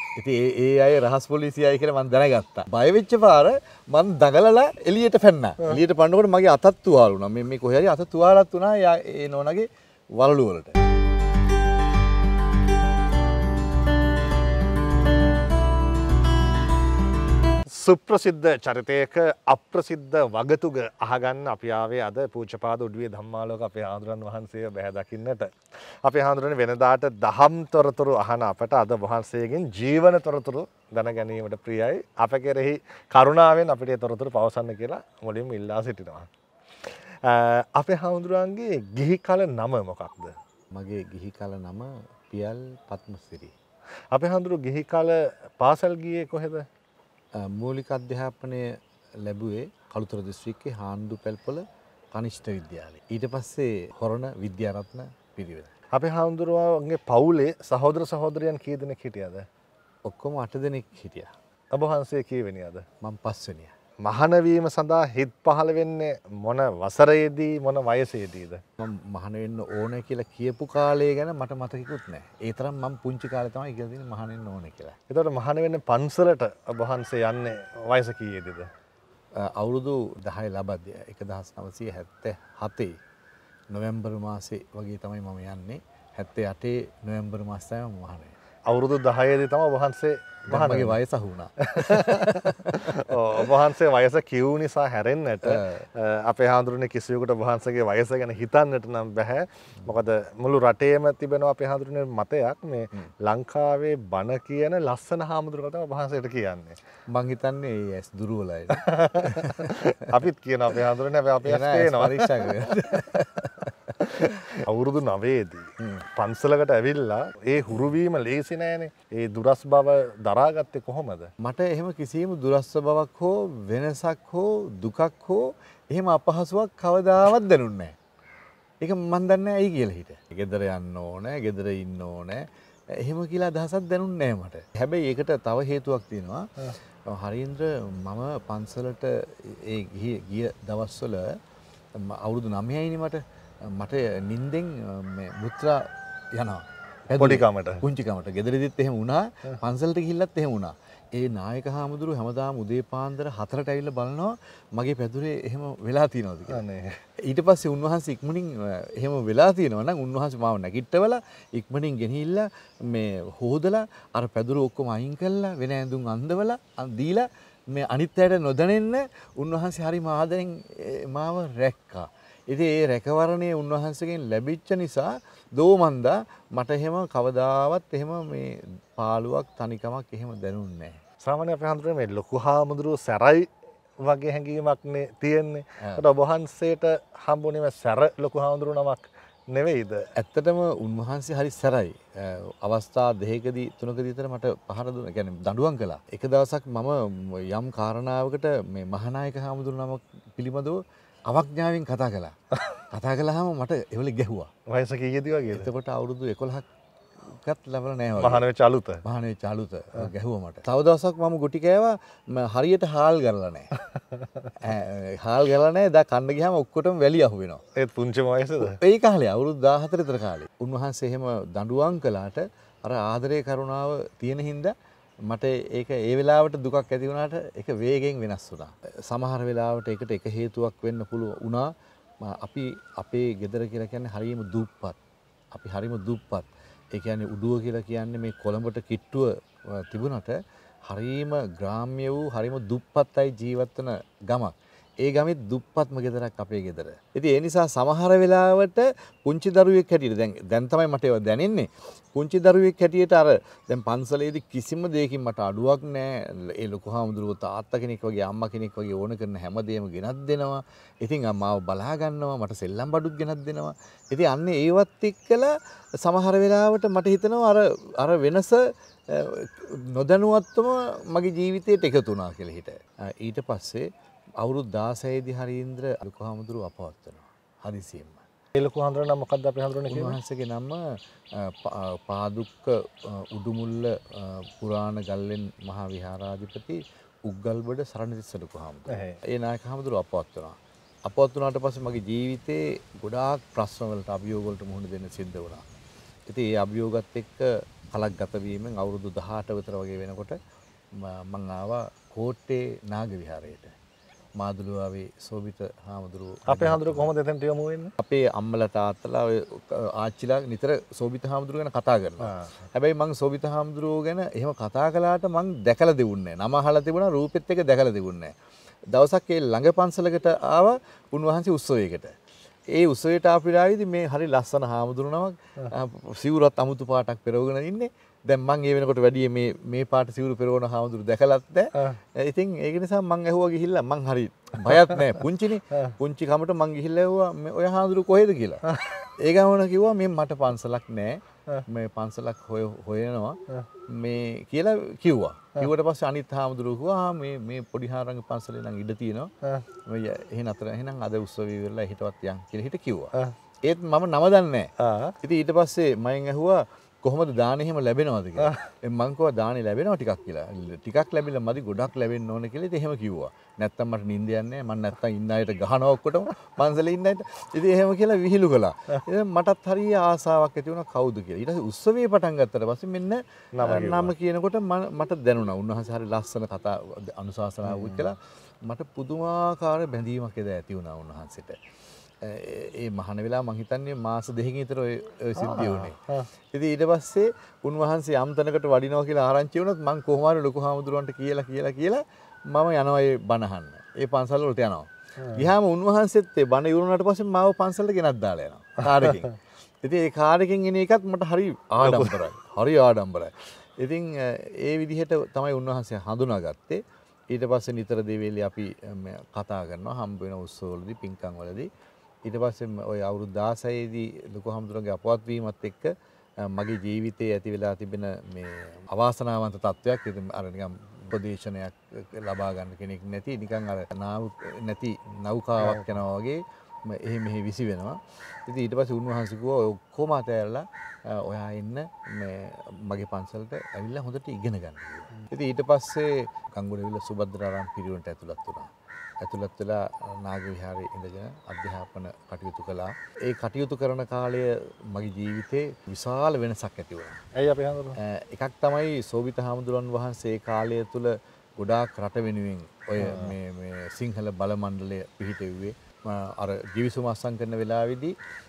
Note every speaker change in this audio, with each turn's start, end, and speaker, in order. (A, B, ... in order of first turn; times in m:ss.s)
0:00.2-0:10.8 A
0:17.7-0:36.3 B
0:36.8-0:40.3 B
0:40.7-0:43.5 A
0:44.1-0:46.7 B
0:47.3-0:55.7 A
0:55.9-0:59.5 B
1:00.0-1:01.3 A
1:01.7-1:02.8 B
1:03.0-1:03.7 A
1:04.0-1:08.6 B
1:08.8-1:15.0 A
1:15.1-1:18.7 B
1:19.4-1:23.0 A
1:23.7-1:28.4 A
1:28.7-1:31.0 B
1:30.5-1:33.1 A
1:31.6-1:46.8 B
1:35.4-1:35.8 A
1:47.1-1:50.2 A
1:48.8-1:52.6 B
1:51.4-1:54.6 A
1:54.0-2:01.3 B
1:55.8-1:56.0 A
2:01.4-2:08.0 A
2:08.8-2:21.4 A
2:21.9-2:36.6 A
2:27.2-2:27.8 B
2:36.5-2:37.0 B
2:37.2-3:01.0 A
3:01.2-3:10.1 B
3:10.2-3:22.4 A
3:22.9-3:24.5 A
3:24.7-3:25.7 B
3:25.5-3:26.6 A
3:27.3-3:28.4 A
3:28.2-3:29.0 B
3:29.0-3:33.7 A
3:34.6-3:37.6 A
3:37.8-3:38.8 B
3:38.6-3:55.0 A
3:55.5-4:33.8 A
4:34.4-4:38.2 A
4:38.6-4:40.2 B
4:39.9-4:55.6 A
4:48.9-4:49.2 B
4:56.3-5:00.4 A
5:00.9-5:03.7 A
5:04.4-5:07.1 A
5:06.5-5:07.9 B
5:08.0-5:18.3 A
5:18.9-5:22.2 A
5:22.7-5:49.3 A
5:49.8-5:53.1 A
5:53.6-6:21.6 A
5:54.8-5:55.1 B
6:13.5-6:14.1 B
6:17.6-6:18.1 B
6:22.2-6:26.0 A
6:25.4-6:26.3 B
6:26.5-6:51.7 A
6:35.2-6:35.5 B
6:41.8-6:42.2 B
6:52.2-7:27.2 A
7:05.6-7:06.0 B
7:27.4-7:28.0 B
7:28.0-7:38.1 A
7:33.0-7:33.3 B